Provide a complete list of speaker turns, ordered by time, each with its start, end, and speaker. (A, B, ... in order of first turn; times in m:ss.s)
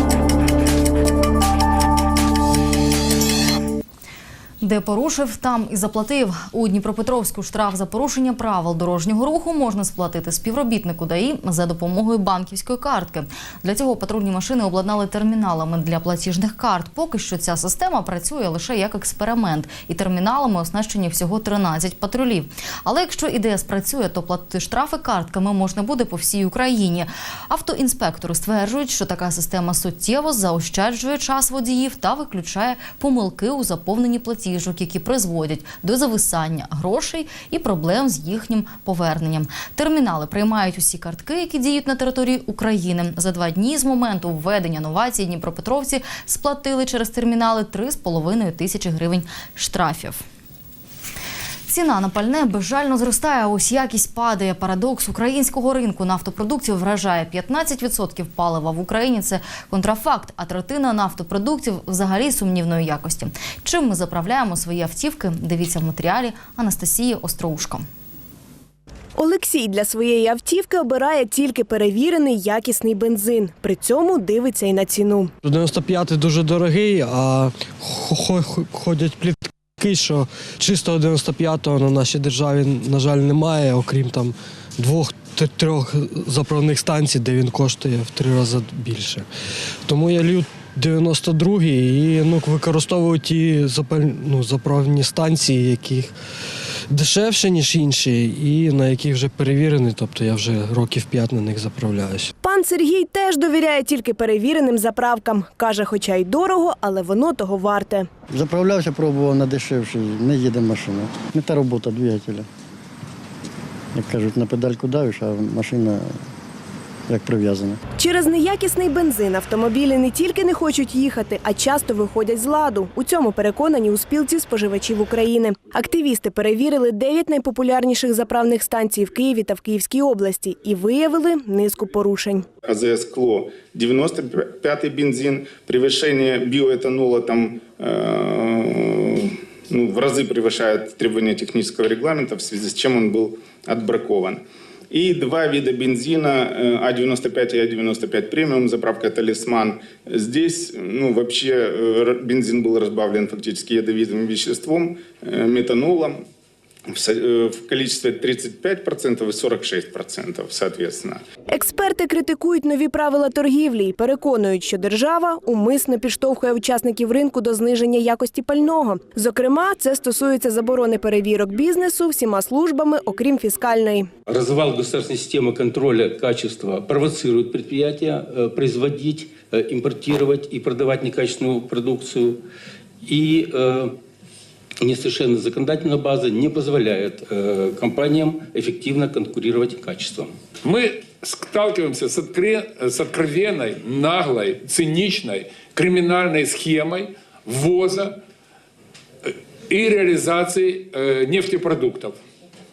0:04.6-0:50.2 A
0:51.7-1:07.9 A
1:09.2-1:15.3 B
1:15.4-1:29.3 C
1:29.9-1:36.1 C
1:36.9-1:42.3 C
1:42.4-1:48.1 B
1:48.3-1:52.5 D
1:53.9-1:56.2 D
1:57.1-1:57.8 D
1:58.0-2:12.5 B
2:12.6-2:36.2 E
2:36.9-2:41.2 E
2:41.5-2:54.1 B
2:54.3-3:02.4 F
3:03.0-3:04.0 F
3:04.8-3:10.4 F
3:10.6-3:18.2 G
3:19.2-3:22.2 G